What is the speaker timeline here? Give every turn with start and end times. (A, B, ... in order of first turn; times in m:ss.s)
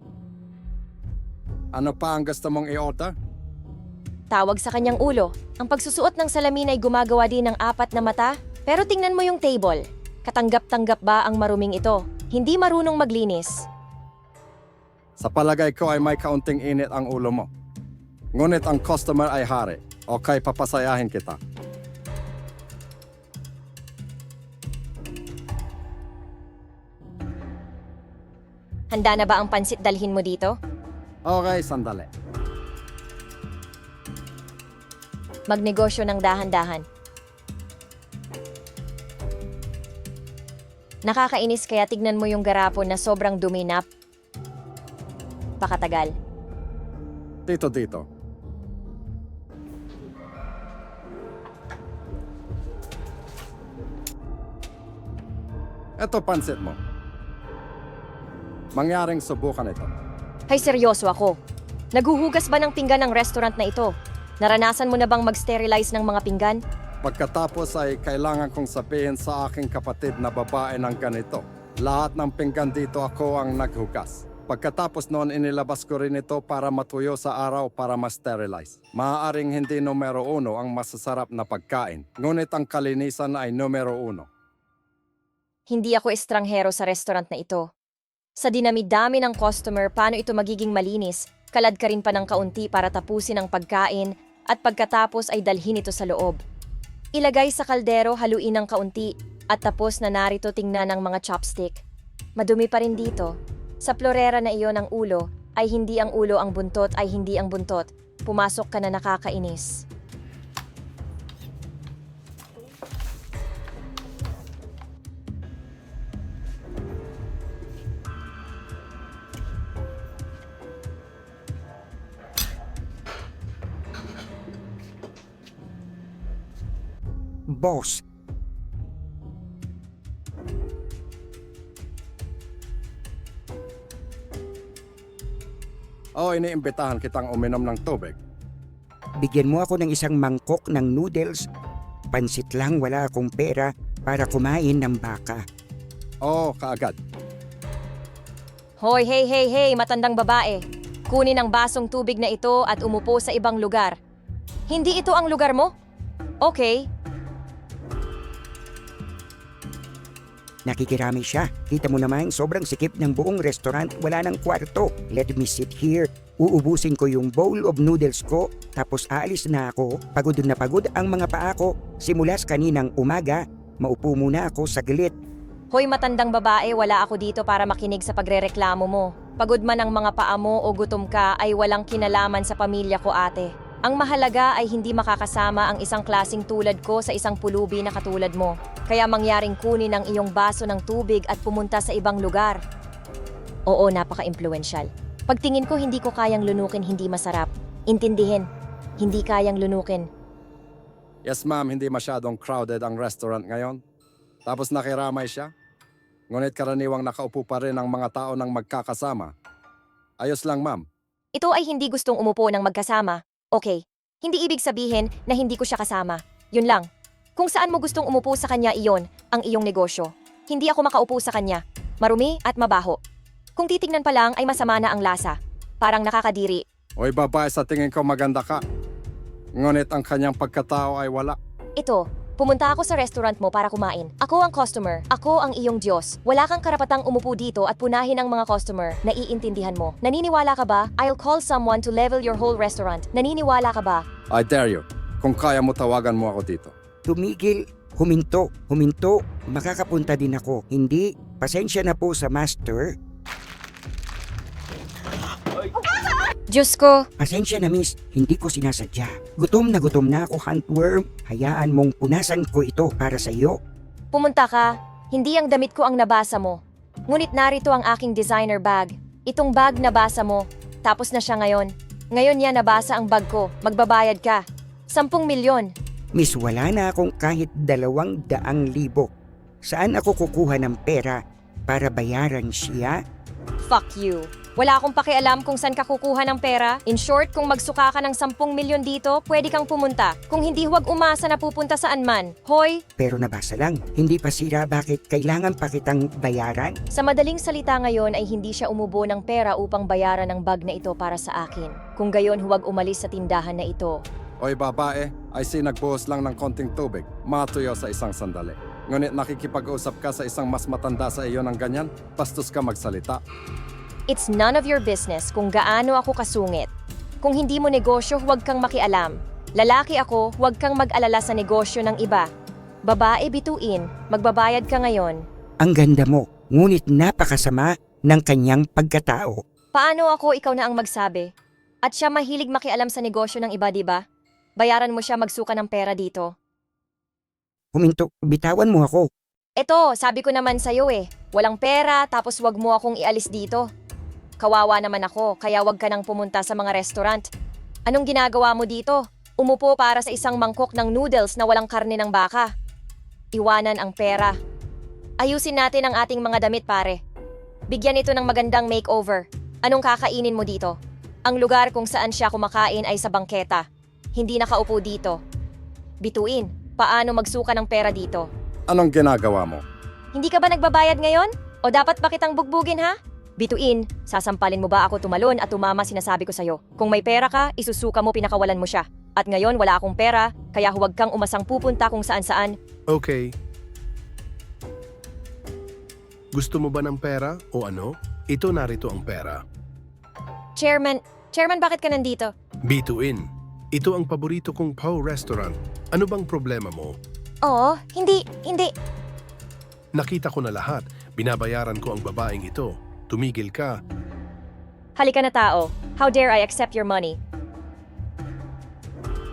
0:01.7-0:03.1 A
0:04.3-0:13.5 B
0:15.2-0:17.5 A
0:18.3-0:21.4 A
0:28.9-0:30.6 B
0:31.3-0:32.1 A
0:35.5-0:36.8 B
0:41.1-0:43.8 B
0:45.6-0:46.1 B
0:47.5-0:48.0 A
0:56.0-0:56.8 A
0:58.8-0:59.9 A
1:00.5-1:01.4 B
1:01.9-1:06.6 B
1:07.0-1:24.3 A
1:25.7-1:27.6 B
1:28.4-1:36.4 B
1:37.2-1:41.8 B
1:42.4-1:43.3 B
1:43.8-1:49.8 B
2:07.5-2:08.0 C
2:16.2-2:18.2 A
2:19.2-2:21.4 C
2:22.1-2:25.4 C
2:26.2-2:27.0 A
2:28.8-2:34.0 B
2:34.7-2:35.7 B
2:36.4-2:36.9 B
2:40.7-2:55.1 C
2:55.7-3:12.6 B
3:13.7-3:18.4 B
3:19.0-3:20.1 B
3:21.2-3:23.8 A
3:24.4-3:25.5 A
3:26.3-3:29.3 A
3:30.2-3:30.8 A
3:31.3-3:36.8 B
3:37.4-3:43.0 B
3:43.6-3:46.6 B
3:47.0-3:48.6 A
3:49.6-3:51.4 A
3:51.8-4:04.0 B
4:04.3-4:06.7 A
4:07.1-4:12.9 C
4:16.5-4:17.0 B
4:17.2-4:23.5 C
4:24.1-4:26.6 B
4:27.1-4:35.7 B
4:36.2-4:39.0 C
4:39.7-4:41.2 C
4:41.7-4:42.9 C
4:43.6-4:52.8 B
4:53.0-4:56.7 C
4:56.9-5:04.0 B
5:04.4-5:13.2 A
5:14.1-5:16.7 B
5:17.2-5:22.2 B
5:22.9-5:25.2 B
5:25.6-5:29.4 C
5:29.7-5:31.3 B
5:31.8-5:34.0 B
5:34.6-5:36.3 B
5:37.7-5:39.0 C
5:39.6-5:43.7 B
5:44.4-5:47.2 B
5:47.9-5:52.5 B
5:53.3-5:54.3 B
5:55.2-5:57.0 B
5:57.7-6:00.7 B
6:01.3-6:03.6 B
6:04.2-6:05.2 B
6:06.0-6:08.3 B
6:08.7-6:09.6 A
6:10.1-6:22.5 B
6:22.9-6:23.3 D
6:26.3-6:29.4 D
6:30.6-6:32.3 B
6:32.7-6:37.0 D
6:37.4-6:38.7 B
6:39.9-6:43.7 D
6:45.0-6:47.2 B